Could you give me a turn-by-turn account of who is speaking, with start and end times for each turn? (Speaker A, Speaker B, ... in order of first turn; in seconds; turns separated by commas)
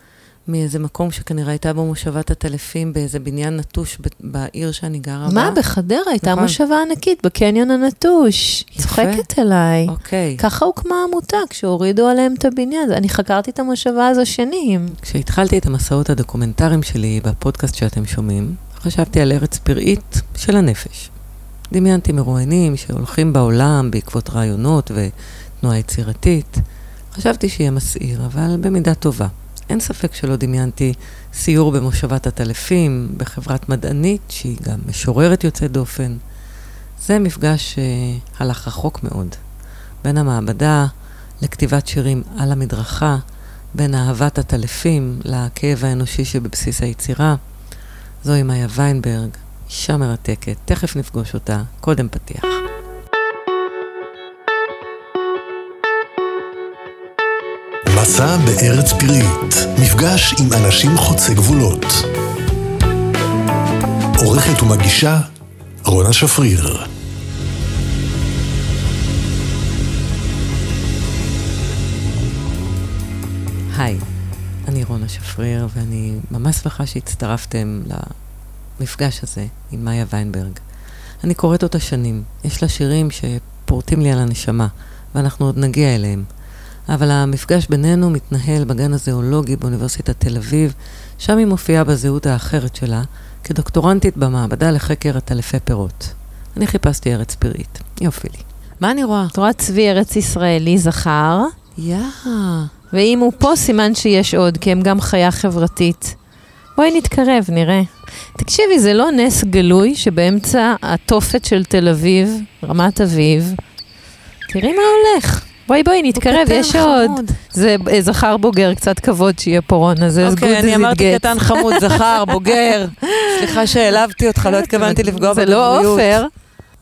Speaker A: 0.5-5.6, Speaker B: 5.3-15.0, Speaker A: 6.2-6.6, Speaker A: 8.8-9.3, Speaker A: 9.9-10.4, Speaker A: 14.9-21.1, Speaker A: 21.7-36.2, Speaker A: 37.0-39.4, Speaker A: 40.0-43.2, Speaker A: 43.7-47.4, Speaker A: 48.2-52.6, Speaker C: 57.9-62.1, Speaker C: 64.2-65.3, Speaker C: 65.8-66.9, Speaker A: 73.7-74.0, Speaker A: 74.7-78.2, Speaker A: 78.8-80.6, Speaker A: 81.2-86.3, Speaker A: 86.9-99.3, Speaker B: 99.3-101.5, Speaker A: 101.8-102.7, Speaker B: 102.9-106.2, Speaker B: 106.8-113.6, Speaker B: 114.5-122.4, Speaker A: 116.2-117.4, Speaker A: 120.2-126.2, Speaker B: 123.0-126.3